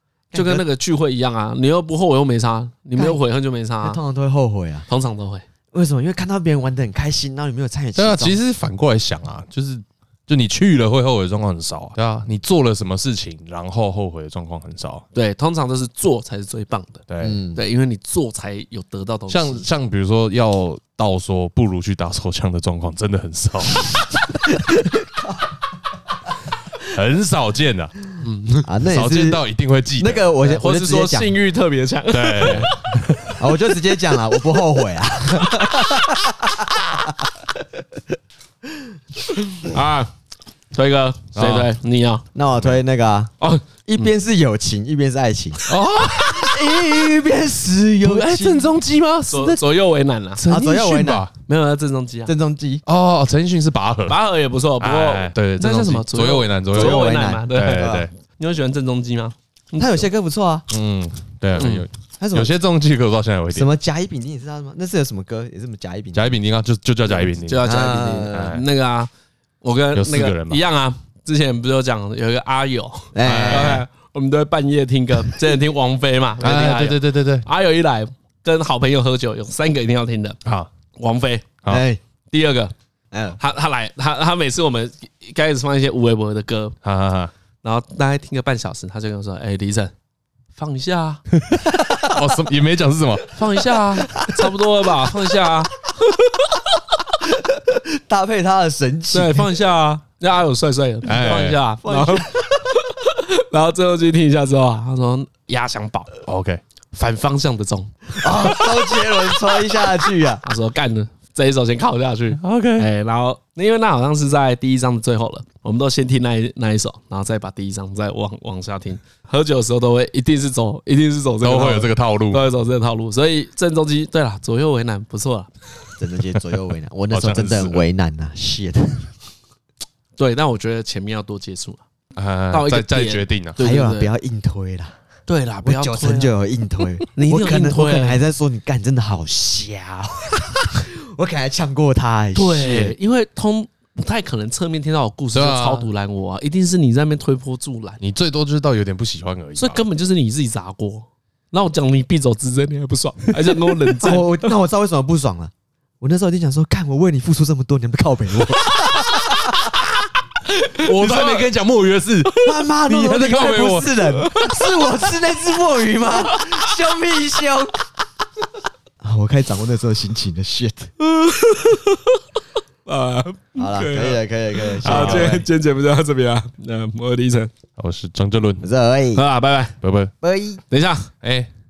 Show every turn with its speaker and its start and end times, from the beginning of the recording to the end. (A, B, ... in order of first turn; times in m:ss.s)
0:00.3-0:00.7 A
0:00.3-0:04.0 B
0:03.8-0:04.9 A
0:04.9-0:05.5 B
0:05.7-0:08.4 A
0:08.0-0:15.0 C
0:15.2-0:19.7 B
0:17.1-0:17.4 C
0:17.2-0:17.6 A
0:19.3-0:24.3 C
0:24.5-0:25.0 A
0:26.8-0:28.0 C
0:28.2-0:28.7 B
0:28.7-0:29.4 A
0:28.9-0:30.3 C
0:30.0-0:31.4 A
0:30.4-0:33.0 B
0:32.1-0:33.4 C
0:33.4-0:37.2 A
0:39.3-0:40.1 B
0:40.7-0:42.2 B
0:41.4-0:41.7 C
0:42.4-0:48.7 A
0:43.4-0:44.1 B
0:45.7-0:46.7 C
0:48.0-0:49.6 C
0:49.3-0:50.4 B
0:50.4-0:51.3 C
0:50.5-0:51.3 A
0:51.5-0:52.3 B
0:52.3-0:52.8 A
0:52.9-0:54.2 C
0:54.1-1:00.1 B
0:54.8-0:58.1 C
0:56.7-0:58.1 A
0:59.8-1:00.7 A
1:00.7-1:03.7 C
1:01.6-1:01.9 B
1:02.2-1:02.5 A
1:03.5-1:06.4 A
1:06.1-1:07.7 C
1:07.1-1:09.1 B
1:07.6-1:08.6 A
1:08.3-1:08.6 C
1:09.6-1:20.4 B
1:09.9-1:10.6 C
1:13.1-1:13.8 A
1:13.2-1:13.8 C
1:16.4-1:17.5 C
1:21.0-1:21.5 B
1:21.7-1:22.0 A
1:22.3-1:22.7 B
1:23.1-1:23.4 A
1:23.4-1:26.8 B
1:26.8-1:27.3 C
1:27.6-1:29.9 B
1:30.5-1:31.2 B
1:31.3-1:33.7 C
1:31.7-1:32.4 A
1:33.3-1:36.2 B
1:34.1-1:34.5 A
1:37.1-1:39.6 A
1:39.1-1:46.1 B
1:41.0-1:41.6 C
1:41.8-1:42.7 A
1:46.2-1:46.6 C
1:46.9-1:49.8 B
1:48.2-1:50.4 A
1:50.4-2:05.5 B
1:52.3-1:52.9 C
2:01.4-2:02.4 C
2:06.0-2:09.1 A
2:07.1-2:07.9 C
2:10.2-2:11.8 B
2:12.2-2:13.6 C
2:12.5-2:14.1 B
2:13.6-2:15.0 A
2:15.3-2:16.3 B
2:15.6-2:23.0 A
2:17.1-2:18.2 B
2:22.4-2:28.0 B
2:25.3-2:25.9 C
2:28.0-2:29.8 C
2:29.6-2:34.5 B
2:34.0-2:39.7 A
2:39.0-2:39.3 C
2:40.5-2:41.5 B
2:40.8-2:44.5 C
2:42.4-2:47.8 A
2:49.0-2:50.9 A
2:51.0-2:52.2 B
2:52.9-2:57.5 B
2:53.6-2:55.5 A
2:54.8-2:55.4 C
2:57.8-2:58.7 C
2:58.6-2:59.2 A
2:59.2-2:59.8 B
2:59.8-3:00.1 C
3:00.2-3:00.6 A
3:00.7-3:01.1 B
3:01.2-3:01.5 C